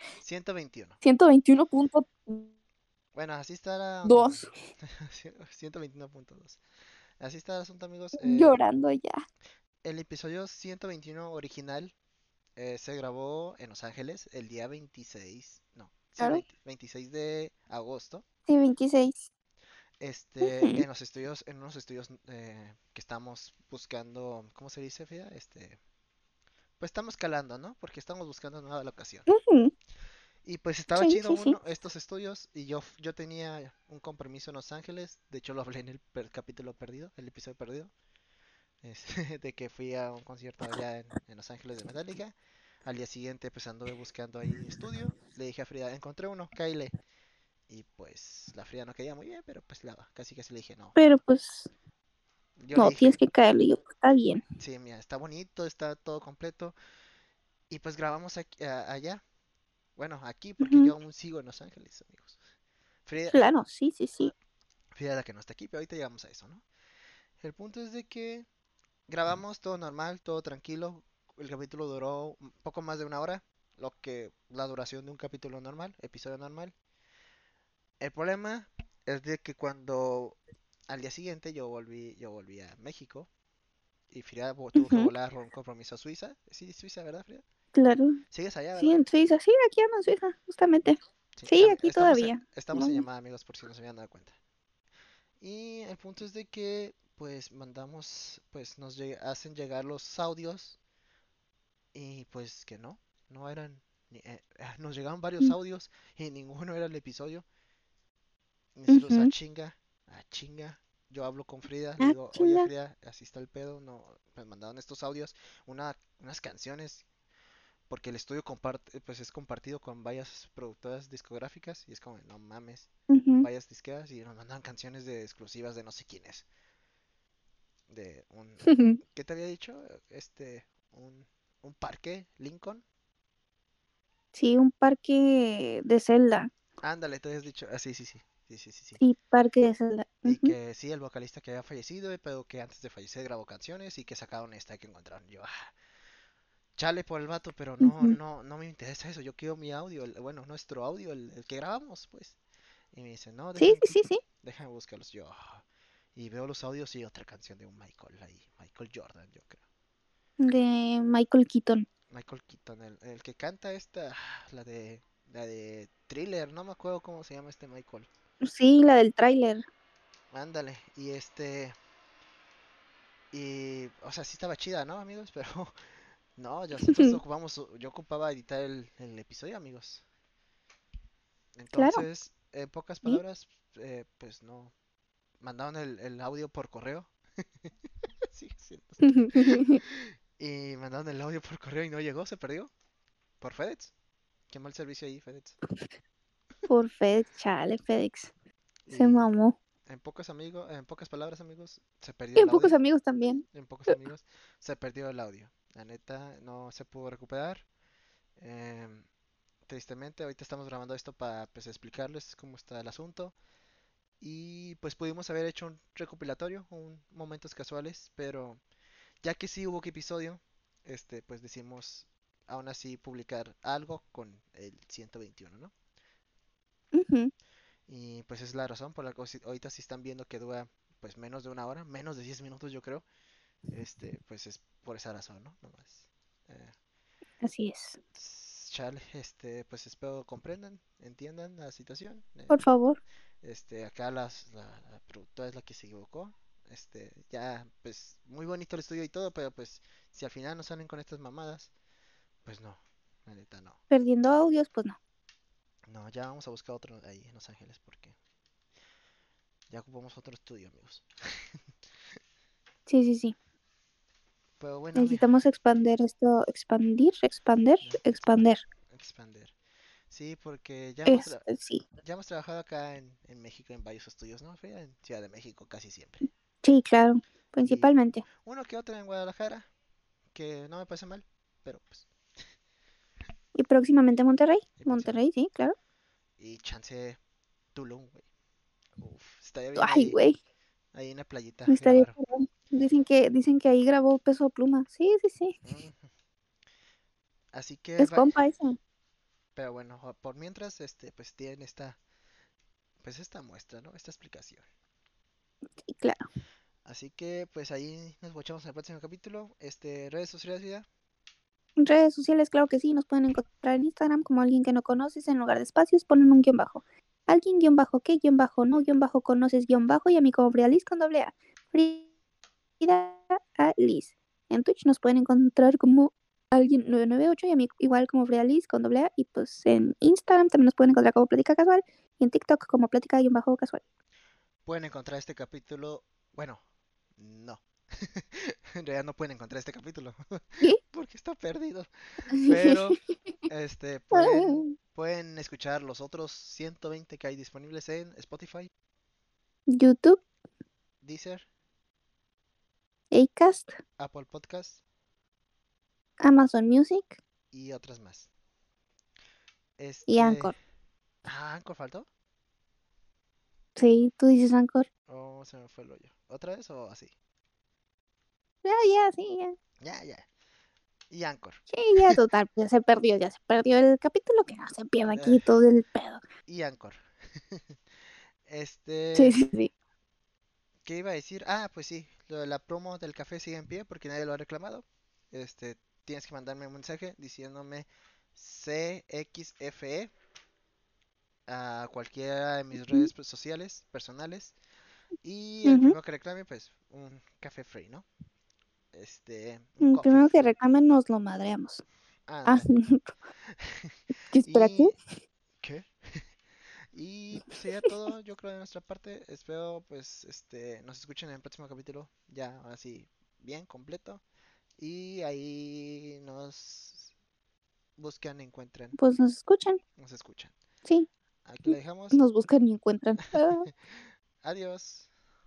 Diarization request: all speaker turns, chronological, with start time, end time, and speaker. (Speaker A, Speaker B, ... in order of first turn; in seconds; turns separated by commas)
Speaker A: 0.2-1.0, Speaker B: 1.0-2.5, Speaker A: 3.1-6.6, Speaker B: 4.0-4.5, Speaker A: 7.2-8.6, Speaker B: 8.2-9.2, Speaker A: 9.8-11.9, Speaker A: 12.6-18.2, Speaker B: 16.2-16.4, Speaker B: 18.5-19.3, Speaker A: 20.0-25.8, Speaker B: 20.4-20.8, Speaker A: 26.8-29.3, Speaker B: 29.3-29.7, Speaker A: 30.4-37.9, Speaker B: 30.9-31.6, Speaker A: 38.8-42.3, Speaker A: 42.8-46.9, Speaker A: 47.7-51.0, Speaker B: 51.0-51.7, Speaker A: 52.6-53.2, Speaker B: 52.7-54.4, Speaker A: 54.6-56.7, Speaker A: 57.7-59.2, Speaker A: 60.0-62.4, Speaker B: 60.6-60.9, Speaker A: 63.0-63.5, Speaker B: 63.3-64.3, Speaker A: 64.9-66.6, Speaker A: 67.4-68.5, Speaker A: 69.1-76.7, Speaker A: 78.0-80.4, Speaker A: 80.9-83.3, Speaker A: 84.1-87.4, Speaker B: 84.8-85.1, Speaker B: 87.7-88.2, Speaker A: 88.3-89.0, Speaker B: 88.8-93.0, Speaker A: 91.4-94.4, Speaker A: 95.4-100.8, Speaker A: 101.9-107.5, Speaker A: 108.8-117.0, Speaker B: 108.9-109.3, Speaker B: 112.0-112.7, Speaker A: 117.9-122.9, Speaker B: 123.1-123.5, Speaker A: 123.4-126.5, Speaker A: 127.9-132.8, Speaker B: 128.6-129.0, Speaker B: 134.3-136.5, Speaker A: 136.8-139.0, Speaker B: 139.0-140.5, Speaker A: 140.2-145.7, Speaker A: 146.8-152.4, Speaker B: 147.8-148.2, Speaker A: 152.9-159.6, Speaker B: 153.6-154.2, Speaker B: 160.4-161.8, Speaker A: 162.1-168.1, Speaker B: 168.4-169.6, Speaker A: 170.3-171.8, Speaker A: 173.3-175.7, Speaker A: 176.3-180.0, Speaker B: 176.8-177.2, Speaker A: 181.6-184.7, Speaker B: 181.7-182.0, Speaker A: 185.4-187.1, Speaker A: 188.3-192.7, Speaker B: 189.0-189.8, Speaker A: 193.4-193.9, Speaker A: 194.5-195.6, Speaker B: 196.7-198.3, Speaker A: 198.9-199.3, Speaker B: 198.9-199.5, Speaker A: 199.9-202.8, Speaker B: 202.3-204.0, Speaker A: 203.5-207.7, Speaker A: 208.4-209.1, Speaker A: 209.7-213.4, Speaker A: 214.2-218.6, Speaker A: 219.2-225.7, Speaker B: 226.9-227.3, Speaker A: 227.9-233.0, Speaker A: 233.7-236.7, Speaker B: 237.4-238.0, Speaker A: 238.1-242.6, Speaker B: 242.5-243.0, Speaker A: 243.4-251.7, Speaker A: 252.4-253.8, Speaker B: 253.9-255.0, Speaker A: 255.9-258.1, Speaker A: 259.7-261.0, Speaker B: 262.9-263.4, Speaker A: 264.6-265.3, Speaker B: 264.9-268.6, Speaker A: 267.8-269.5, Speaker A: 270.1-271.4, Speaker B: 271.1-271.8, Speaker A: 272.0-276.2, Speaker B: 276.6-278.2, Speaker A: 277.6-279.7, Speaker A: 280.3-282.1, Speaker B: 283.5-285.7, Speaker A: 284.8-285.2, Speaker A: 286.4-287.2, Speaker A: 287.7-288.2, Speaker A: 289.0-290.2, Speaker B: 289.8-290.4, Speaker A: 290.9-292.2, Speaker B: 291.7-295.7, Speaker A: 295.6-296.1, Speaker A: 297.5-298.3, Speaker B: 298.0-298.8, Speaker A: 299.6-302.0, Speaker A: 303.0-304.6, Speaker B: 305.8-306.3, Speaker A: 306.9-310.9, Speaker B: 311.8-322.1, Speaker B: 322.8-333.8, Speaker A: 334.6-336.6, Speaker A: 337.2-341.9, Speaker B: 342.4-342.9, Speaker A: 342.4-343.0, Speaker A: 343.5-348.7, Speaker B: 344.1-344.7, Speaker B: 349.7-350.2, Speaker A: 351.0-351.5, Speaker B: 353.1-353.7, Speaker A: 354.0-354.8, Speaker B: 356.2-357.2, Speaker A: 357.5-358.3, Speaker A: 359.8-360.6, Speaker B: 360.1-360.5, Speaker A: 361.2-362.1, Speaker B: 363.8-364.9, Speaker A: 365.1-367.1, Speaker B: 368.6-369.6, Speaker A: 369.8-370.3, Speaker A: 371.1-372.2, Speaker B: 371.7-376.2, Speaker A: 375.1-375.4, Speaker A: 376.5-377.0, Speaker A: 377.5-377.8, Speaker A: 378.4-379.4, Speaker B: 379.1-379.7, Speaker A: 380.8-390.1, Speaker A: 391.5-394.6, Speaker B: 392.7-393.1, Speaker A: 395.2-398.1, Speaker B: 395.6-395.9, Speaker A: 398.9-400.5, Speaker B: 399.8-401.8, Speaker A: 402.3-402.7, Speaker B: 402.4-403.1, Speaker A: 403.6-404.9, Speaker B: 404.3-405.0, Speaker A: 405.6-406.2, Speaker A: 406.9-414.2, Speaker A: 414.8-417.1, Speaker A: 418.0-419.0, Speaker B: 418.9-419.8, Speaker A: 420.0-420.5, Speaker A: 421.4-422.2, Speaker B: 421.7-423.6, Speaker A: 423.6-425.1